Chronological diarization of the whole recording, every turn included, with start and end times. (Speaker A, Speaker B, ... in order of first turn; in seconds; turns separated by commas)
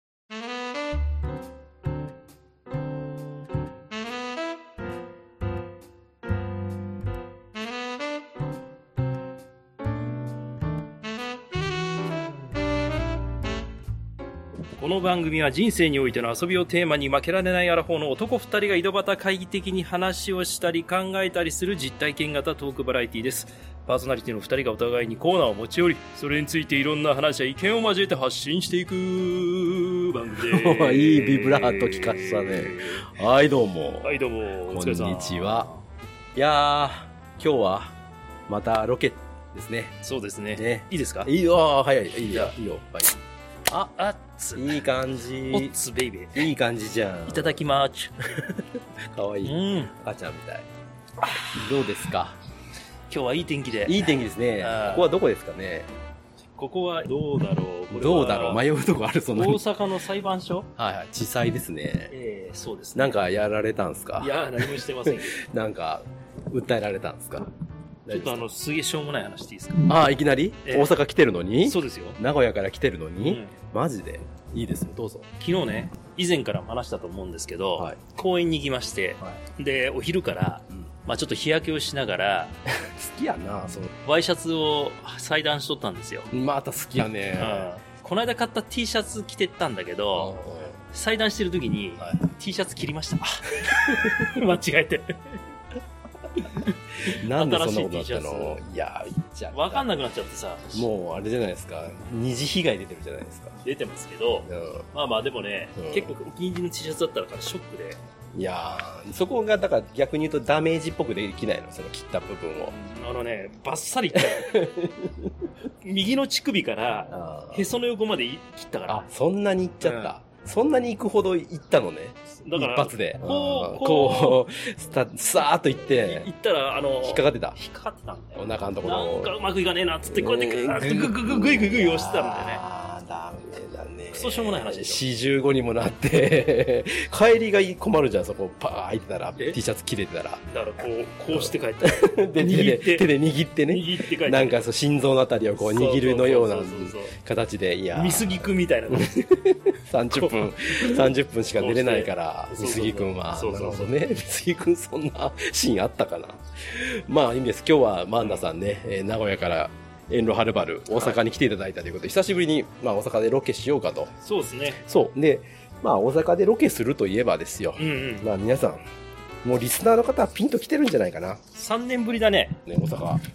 Speaker A: 14.7-33.1, Speaker B: 30.4-35.7, Speaker A: 34.0-35.8, Speaker B: 36.4-37.9, Speaker B: 38.5-40.0, Speaker A: 40.0-41.3, Speaker B: 40.5-43.2, Speaker A: 42.3-42.5, Speaker A: 43.7-44.8, Speaker B: 44.6-45.7, Speaker A: 45.5-46.5, Speaker B: 46.3-47.6, Speaker A: 47.3-48.2, Speaker B: 48.4-50.7, Speaker A: 49.4-49.9, Speaker B: 51.5-52.4, Speaker A: 53.1-55.1, Speaker B: 53.9-55.9, Speaker A: 56.6-58.6, Speaker B: 57.9-59.6, Speaker A: 59.3-60.7, Speaker B: 60.8-62.1, Speaker A: 62.1-63.2, Speaker B: 63.0-67.5, Speaker A: 64.2-65.4, Speaker B: 68.1-68.4, Speaker A: 68.1-69.9, Speaker B: 69.8-75.3, Speaker A: 70.6-70.9, Speaker A: 71.6-72.2, Speaker A: 73.2-73.5, Speaker A: 75.4-82.5, Speaker B: 82.8-83.9, Speaker A: 84.0-86.3, Speaker B: 86.3-87.7, Speaker A: 87.4-90.4, Speaker B: 90.1-90.8, Speaker A: 90.9-95.4, Speaker B: 93.7-94.2, Speaker A: 96.4-98.6, Speaker B: 97.0-100.0, Speaker A: 99.5-100.9, Speaker B: 100.7-103.6, Speaker A: 103.6-108.0, Speaker B: 104.5-104.8, Speaker B: 105.8-106.1, Speaker B: 108.3-112.7, Speaker A: 112.7-114.7, Speaker B: 114.1-115.3, Speaker A: 115.8-119.1, Speaker B: 117.1-117.7, Speaker B: 118.9-126.3, Speaker A: 119.8-120.1, Speaker A: 122.3-124.4, Speaker A: 125.9-132.6, Speaker B: 127.0-127.6, Speaker B: 128.3-129.3, Speaker B: 130.1-140.4, Speaker A: 134.1-135.0, Speaker A: 140.5-143.1, Speaker B: 141.3-164.1, Speaker A: 143.7-144.7, Speaker A: 145.6-147.2, Speaker A: 147.9-149.4, Speaker A: 150.1-153.9, Speaker A: 158.2-158.5, Speaker A: 164.2-164.8, Speaker B: 164.8-168.8, Speaker A: 167.8-168.3, Speaker B: 169.4-171.4, Speaker A: 171.5-172.6, Speaker B: 172.7-173.2